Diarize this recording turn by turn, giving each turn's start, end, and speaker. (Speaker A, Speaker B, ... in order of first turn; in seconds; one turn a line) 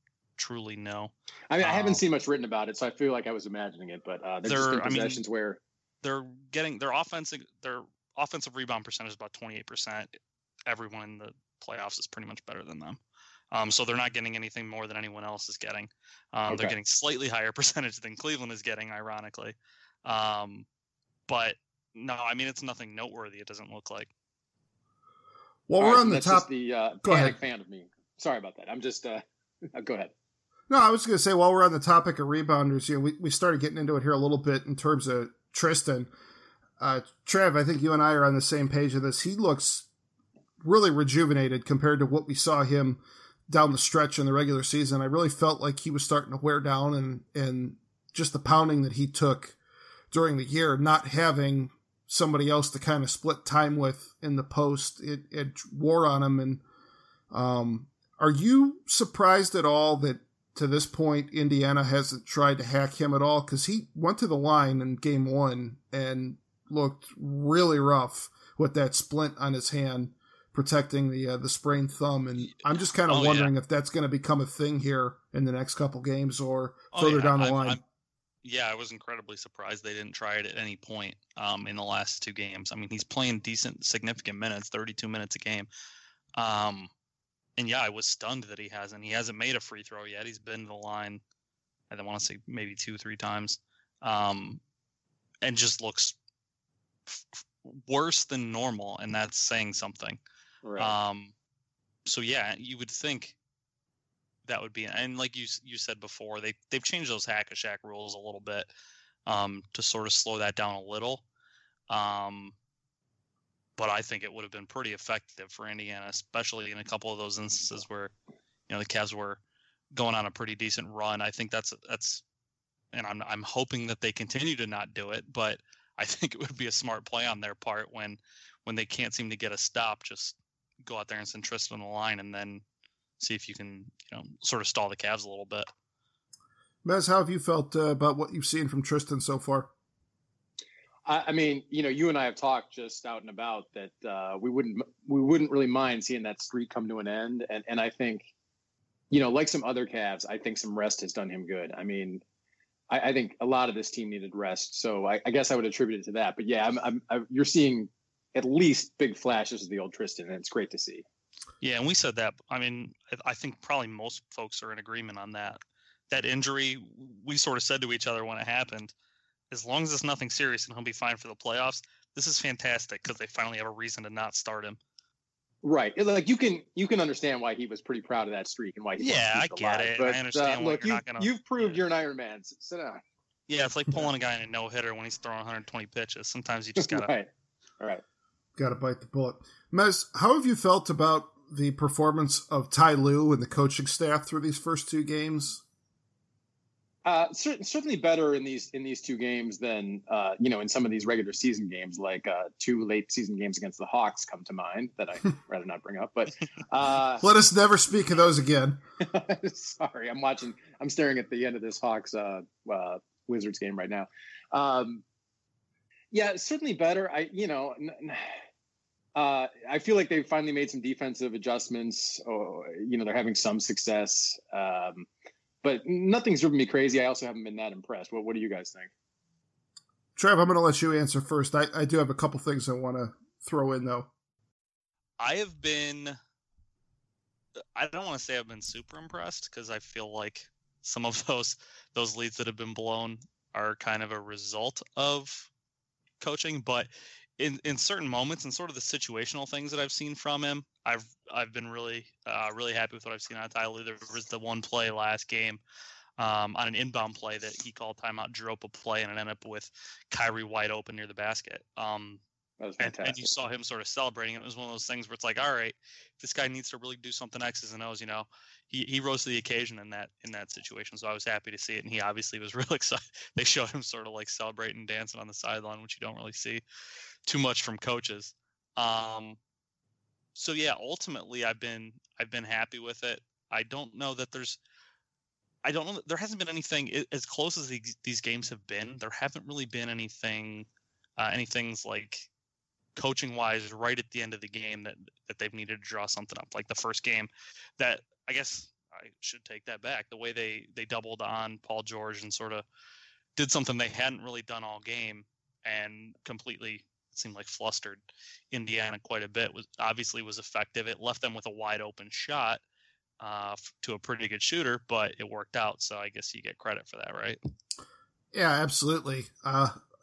Speaker A: 0.4-2.0
Speaker B: 1.5-5.6
Speaker A: 4.5-5.2
Speaker A: 6.0-10.1
Speaker A: 10.7-13.0
Speaker A: 13.5-20.6
Speaker B: 16.5-16.7
Speaker A: 21.3-24.1
Speaker C: 25.7-26.5
Speaker B: 25.8-29.2
Speaker C: 27.0-27.3
Speaker B: 29.7-30.1
Speaker C: 30.7-36.1
Speaker C: 36.8-39.9
Speaker C: 40.6-49.5
Speaker C: 50.1-56.6
Speaker C: 57.3-77.8
Speaker A: 73.1-73.5
Speaker A: 76.9-77.8
Speaker A: 78.4-85.7
Speaker A: 86.4-86.9
Speaker A: 87.6-91.2
Speaker A: 91.9-94.6
Speaker A: 95.4-96.2
Speaker A: 97.1-100.2
Speaker B: 100.6-100.9
Speaker A: 100.8-101.3
Speaker A: 102.0-103.3
Speaker A: 104.5-108.7
Speaker A: 109.3-111.2
Speaker A: 111.9-112.5
Speaker A: 113.8-118.1
Speaker A: 118.7-119.4
Speaker A: 119.9-122.2
Speaker A: 122.9-132.6
Speaker A: 133.2-135.7
Speaker C: 136.8-139.7
Speaker B: 141.1-148.3
Speaker B: 149.1-152.2
Speaker B: 152.9-161.0
Speaker A: 161.6-165.6
Speaker A: 166.1-168.9
Speaker A: 169.5-174.8
Speaker B: 175.6-183.0
Speaker A: 179.0-181.8
Speaker A: 183.5-187.1
Speaker B: 186.8-187.3
Speaker C: 188.6-195.6
Speaker B: 197.0-207.2
Speaker C: 207.2-208.8
Speaker B: 209.0-215.0
Speaker B: 216.1-218.4
Speaker B: 219.1-225.1
Speaker B: 225.6-228.9
Speaker C: 230.2-234.1
Speaker A: 235.2-236.2
Speaker A: 237.8-245.5
Speaker A: 246.2-255.6
Speaker A: 256.2-262.2
Speaker B: 262.6-263.2
Speaker A: 262.8-276.6
Speaker A: 277.2-279.4
Speaker A: 280.3-284.6
Speaker A: 285.6-290.7
Speaker A: 291.2-292.3
Speaker A: 292.9-302.6
Speaker A: 303.4-312.6
Speaker A: 313.2-317.4
Speaker C: 318.3-319.8